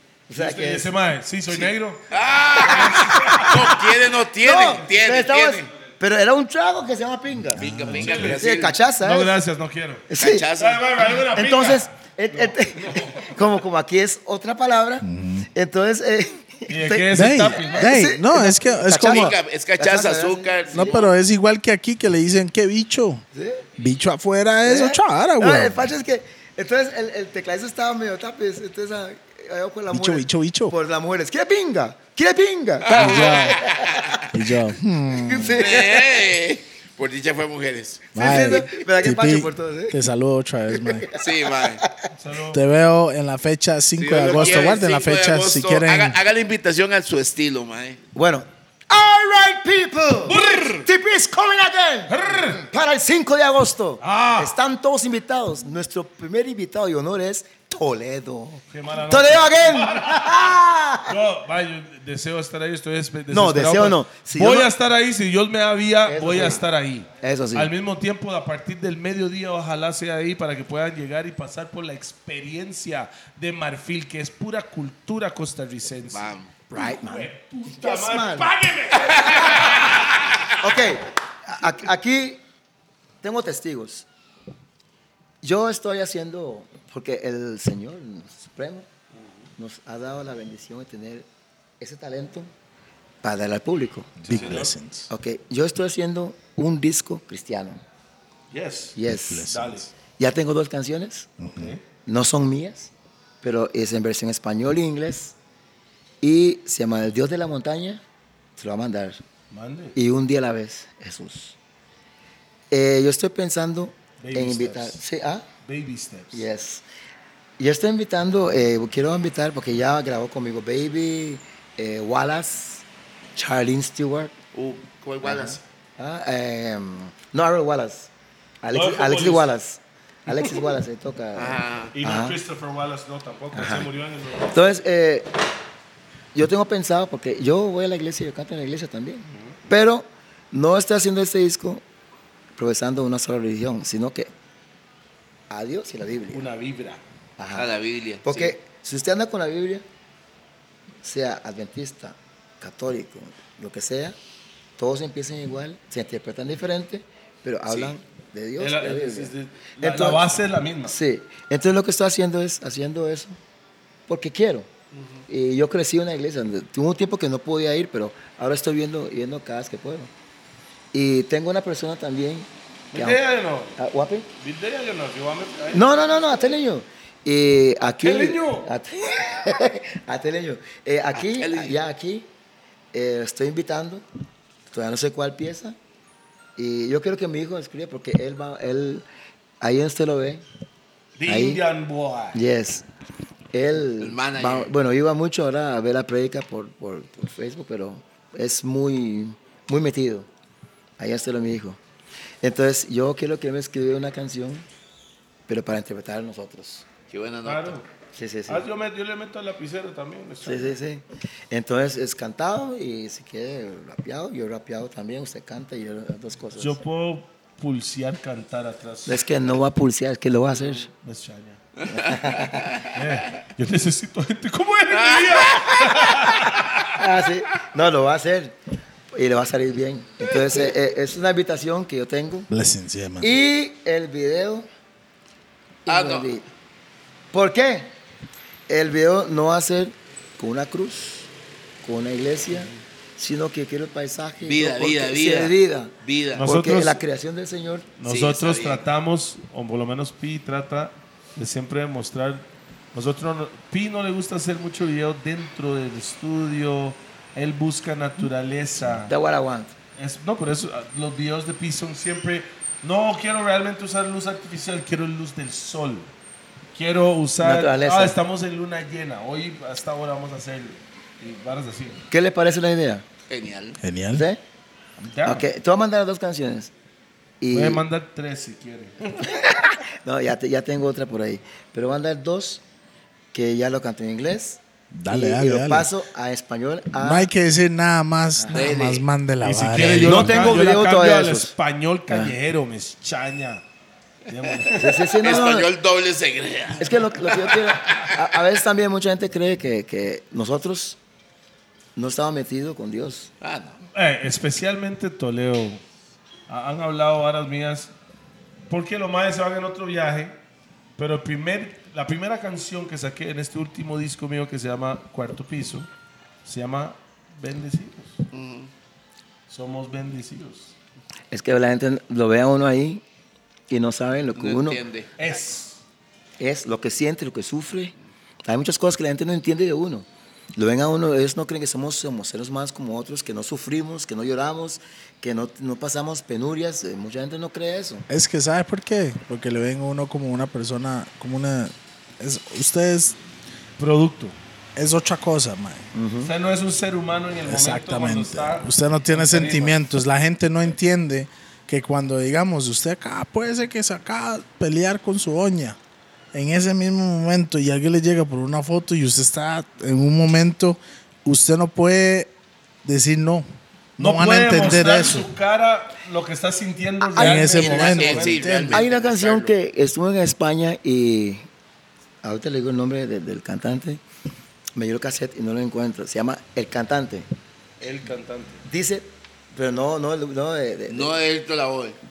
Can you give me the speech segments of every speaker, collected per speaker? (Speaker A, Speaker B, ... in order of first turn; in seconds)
Speaker A: 0.3-0.9, 2.7-3.8, 4.4-7.6, 8.2-9.3, 10.1-10.5, 11.3-21.1, 23.3-23.6, 24.6-34.2, 35.1-36.1, 38.1-40.0, 40.7-42.1, 48.1-61.1, 63.3-64.7, 66.0-66.7, 67.2-67.7, 76.7-78.5, 80.6-82.4, 83.2-84.1, 85.4-88.9, 89.6-91.3, 91.8-92.5, 93.2-94.3, 95.1-97.8, 99.0-99.5, 100.2-101.3, 102.0-102.9, 103.4-105.3, 106.2-108.0, 108.6-109.2, 109.9-111.5, 112.7-115.5, 116.3-116.8, 117.6-122.8, 123.3-124.3, 125.2-128.1, 128.6-132.4, 133.5-133.9, 134.5-135.3, 136.3-141.8, 142.6-144.3, 145.5-146.4, 147.4-147.7, 148.2-149.8, 151.0-154.2, 154.8-163.3, 164.1-164.7, 165.3-170.1, 170.9-173.2, 173.8-174.3, 175.7-182.3, 182.9-184.0, 184.7-185.8, 186.6-189.0, 189.6-190.4, 191.2-191.6, 192.3-192.8, 193.5-200.3, 201.0-201.8, 202.4-204.7, 205.5-206.8, 208.1-208.6, 210.4-216.8, 219.1-220.9, 221.9-222.7, 226.9-228.6, 229.1-232.5, 233.2-234.7, 235.8-236.5, 237.3-237.9, 238.7-241.3, 241.8-247.9, 259.1-259.7, 267.4-268.2, 272.1-273.0, 274.1-274.4, 275.2-276.7, 277.4-277.8, 279.6-282.6, 283.3-287.3, 288.4-288.7, 289.8-291.5, 292.1-292.3, 294.7-295.7, 296.8-301.0, 301.9-303.3, 321.3-323.0, 323.7-324.8, 326.4-327.9, 328.4-338.1, 345.9-346.3, 367.0-368.0, 368.7-371.4, 372.2-374.0, 374.8-377.3, 378.6-381.1
Speaker B: 0.3-2.0, 7.8-8.4, 9.0-10.0, 10.6-13.2, 16.7-17.9, 42.2-42.6, 50.2-50.9, 52.1-52.6, 54.0-54.5, 58.7-60.3, 61.1-79.9, 94.2-94.7, 98.5-99.0, 99.5-99.9, 109.5-110.0, 114.2-115.0, 115.7-116.4, 128.7-129.5, 131.9-134.7, 146.3-147.0, 158.6-160.9, 172.9-173.7, 174.4-175.9, 177.9-178.7, 191.2-192.4, 207.4-207.8, 208.5-210.8, 216.6-219.3, 220.7-221.6, 222.9-227.0, 246.4-247.0, 248.0-259.1, 260.0-266.1, 266.7-272.0, 275.0-275.4, 277.5-279.1, 289.4-293.6, 294.3-295.1, 303.9-305.8, 306.5-307.9, 308.7-310.3, 311.0-315.9, 316.4-318.2, 319.5-320.7, 325.2-325.8, 343.8-344.3, 346.2-349.8, 364.0-368.7, 377.8-378.6
Speaker C: 2.1-5.7, 7.6-8.8, 10.2-10.8, 19.0-21.1, 32.8-34.2, 35.6-38.6, 41.1-41.8, 44.0-48.0, 76.1-76.5, 79.0-80.0, 124.5-125.6, 131.3-131.9, 147.5-148.5, 157.7-157.9, 181.1-181.8, 194.0-194.7, 207.1-207.8, 221.8-222.9, 225.0-225.8, 235.9-236.3, 244.4-246.4, 248.0-248.8, 273.3-273.8, 288.5-289.0, 295.2-298.2, 303.4-303.7, 318.3-318.7, 324.4-325.1, 367.5-369.5, 380.9-382.0
Speaker D: 7.5-8.2, 15.0-15.5, 17.1-19.3, 20.7-23.2, 23.8-25.9, 29.9-30.7, 32.9-33.6, 34.3-35.6, 38.1-41.1, 42.5-46.2, 94.3-95.1, 99.3-99.9, 101.4-101.7, 232.5-233.3, 273.8-274.2, 284.9-285.9, 287.0-290.6, 338.1-343.2, 344.8-345.9, 347.4-355.8, 356.3-362.3, 362.8-363.4, 364.0-365.3, 367.1-368.8